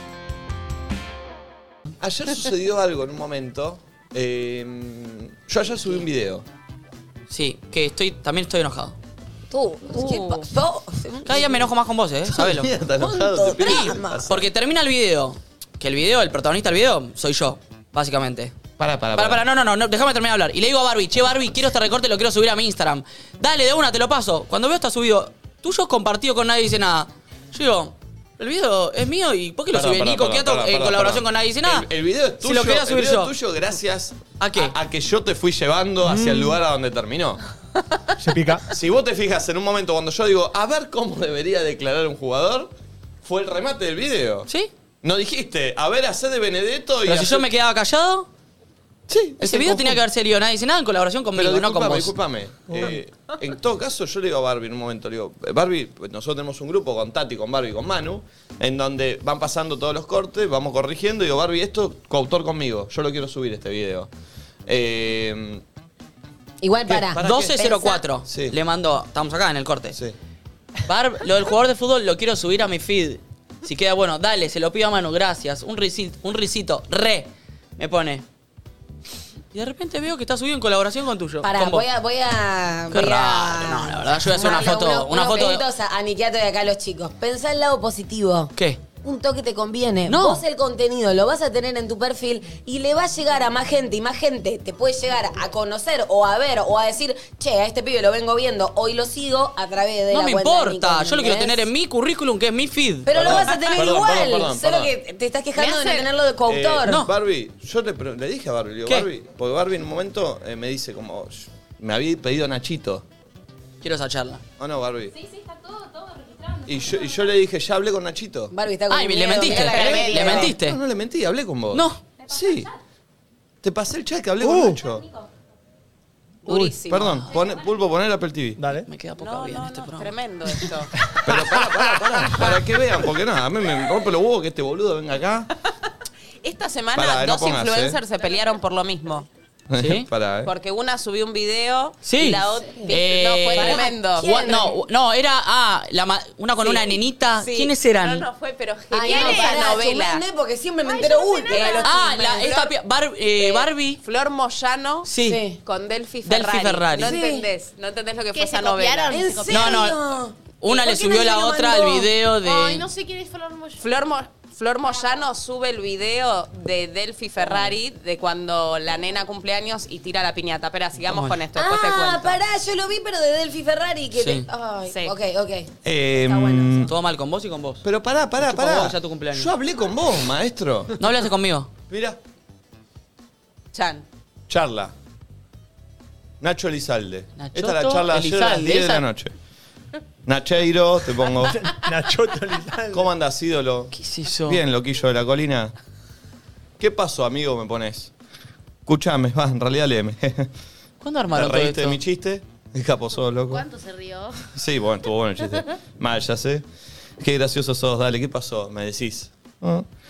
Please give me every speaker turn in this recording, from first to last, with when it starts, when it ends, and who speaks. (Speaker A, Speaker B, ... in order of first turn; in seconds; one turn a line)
Speaker A: 2.0-6.5
Speaker B: 7.3-8.9
Speaker C: 9.5-11.7
Speaker D: 9.9-10.5
Speaker B: 11.2-12.7
Speaker A: 12.3-14.5
Speaker C: 13.0-14.3
Speaker B: 13.6-18.6
Speaker A: 18.8-19.4
Speaker B: 19.1-31.9
Speaker A: 29.7-37.4
Speaker B: 32.4-33.3
Speaker B: 34.4-34.7
Speaker E: 36.0-36.5
Speaker E: 38.2-38.6
Speaker A: 38.7-42.7
Speaker A: 43.2-44.5
Speaker A: 45.0-47.4
Speaker B: 47.0-48.3
Speaker A: 49.1-50.0
Speaker B: 49.4-52.1
Speaker A: 51.3-64.1
Speaker E: 52.7-53.0
Speaker A: 64.7-65.6
Speaker C: 66.6-68.0
Speaker A: 66.9-67.6
Speaker B: 67.2-70.0
Speaker A: 68.3-68.5
Speaker B: 70.9-78.2
Speaker B: 79.5-81.8
Speaker C: 81.4-88.5
Speaker B: 82.9-85.6
Speaker C: 89.0-101.7
Speaker B: 90.1-90.4
Speaker B: 100.1-103.3
Speaker C: 103.0-107.0
Speaker A: 103.1-104.9
Speaker D: 105.6-106.1
Speaker A: 106.5-113.0
Speaker B: 106.8-107.1
Speaker B: 113.8-114.4
Speaker A: 114.6-115.2
Speaker A: 116.6-118.5
Speaker C: 118.5-120.5
Speaker B: 118.9-120.8
Speaker A: 119.5-122.7
Speaker B: 121.7-122.0
Speaker A: 123.6-125.1
Speaker E: 124.4-124.8
Speaker E: 126.4-126.8
Speaker D: 126.5-127.4
Speaker A: 126.8-128.6
Speaker E: 128.6-128.9
Speaker B: 128.8-130.1
Speaker D: 129.2-130.9
Speaker A: 131.2-135.5
Speaker E: 131.3-132.5
Speaker D: 136.4-139.3
Speaker A: 136.9-138.0
Speaker A: 139.7-140.5
Speaker B: 139.8-140.1
Speaker D: 140.4-144.3
Speaker B: 142.0-148.2
Speaker C: 143.5-144.8
Speaker D: 146.6-150.2
Speaker C: 148.9-152.1
Speaker F: 148.9-149.6
Speaker F: 150.8-152.0
Speaker D: 151.5-152.7
Speaker B: 151.8-154.0
Speaker D: 153.3-155.1
Speaker B: 155.0-155.4
Speaker C: 155.2-155.6
Speaker D: 155.6-159.2
Speaker B: 156.2-157.1
Speaker C: 156.9-157.5
Speaker F: 158.3-159.9
Speaker C: 159.1-162.1
Speaker B: 159.5-160.0
Speaker B: 160.6-162.8
Speaker F: 162.3-163.8
Speaker D: 163.8-172.4
Speaker B: 167.4-167.7
Speaker B: 171.0-171.4
Speaker C: 171.5-176.9
Speaker B: 174.1-174.4
Speaker D: 174.9-175.1
Speaker A: 175.8-176.9
Speaker B: 176.8-177.8
Speaker A: 177.8-180.9
Speaker B: 178.4-179.5
Speaker B: 181.0-181.7
Speaker A: 181.9-182.2
Speaker D: 183.7-184.0
Speaker A: 184.5-184.9
Speaker A: 186.4-189.3
Speaker B: 187.4-189.0
Speaker A: 190.2-191.7
Speaker E: 191.4-193.1
Speaker A: 192.9-195.7
Speaker B: 193.9-194.6
Speaker A: 196.8-198.1
Speaker A: 198.8-200.5
Speaker B: 201.0-202.0
Speaker A: 201.3-203.7
Speaker F: 203.5-204.4
Speaker A: 204.5-206.6
Speaker A: 207.2-209.8